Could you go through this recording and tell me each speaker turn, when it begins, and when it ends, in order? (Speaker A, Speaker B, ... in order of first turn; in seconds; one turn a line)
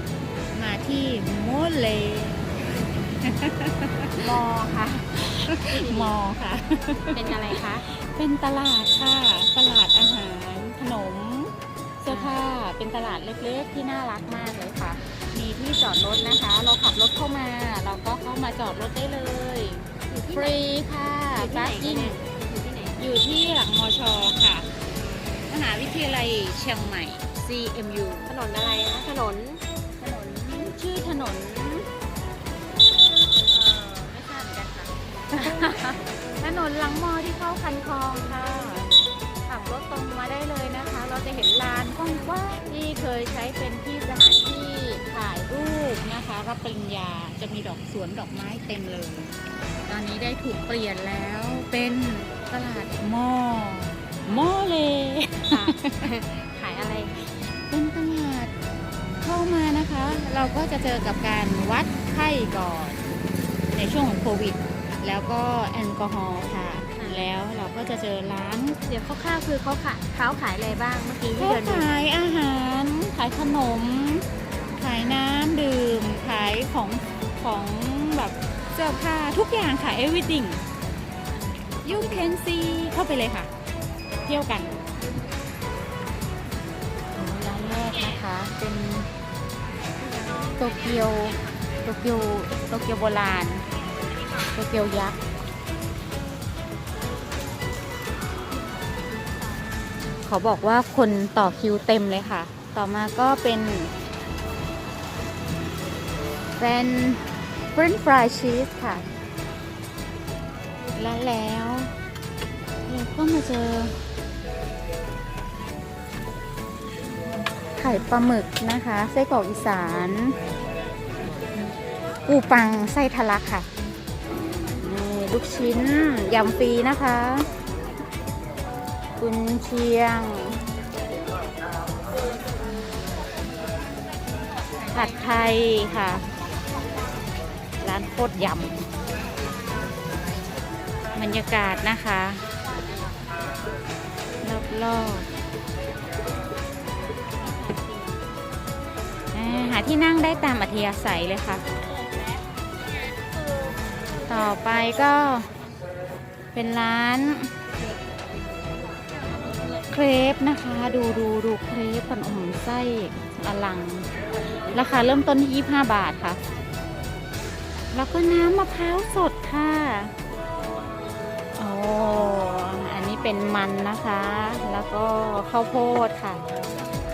Speaker A: 0.5-2.4
Speaker A: 3.2-22.1
Speaker B: 5.7-6.1
Speaker B: 7.1-7.8
Speaker B: 12.1-12.4
Speaker B: 20.1-20.6
Speaker B: 21.3-23.0
Speaker A: 23.0-24.7
Speaker A: 25.5-28.3
Speaker B: 28.2-29.6
Speaker A: 30.0-31.9
Speaker A: 33.5-49.4
Speaker A: 49.9-56.0
Speaker B: 55.5-57.2
Speaker A: 57.7-58.5
Speaker A: 59.2-63.0
Speaker A: 63.7-68.8
Speaker B: 66.9-67.2
Speaker B: 68.9-72.1
Speaker A: 71.4-80.6
Speaker B: 81.4-82.3
Speaker A: 81.8-83.5
Speaker A: 84.2-84.7
Speaker A: 87.1-89.1
Speaker B: 90.1-90.5
Speaker A: 90.6-93.6
Speaker A: 94.5-95.2
Speaker A: 100.2-103.9
Speaker A: 106.6-109.0
Speaker A: 111.0-111.9
Speaker A: 112.8-114.0
Speaker A: 117.8-120.3
Speaker A: 122.3-123.7
Speaker A: 124.8-127.5
Speaker A: 129.2-130.6
Speaker A: 134.9-136.2
Speaker A: 137.8-138.9
Speaker A: 141.1-142.4
Speaker A: 144.4-145.3
Speaker B: 147.5-148.1
Speaker A: 149.3-151.6
Speaker A: 154.3-155.5
Speaker A: 156.5-157.5
Speaker A: 159.9-164.1
Speaker A: 164.7-166.4
Speaker A: 167.9-170.1
Speaker A: 171.6-176.4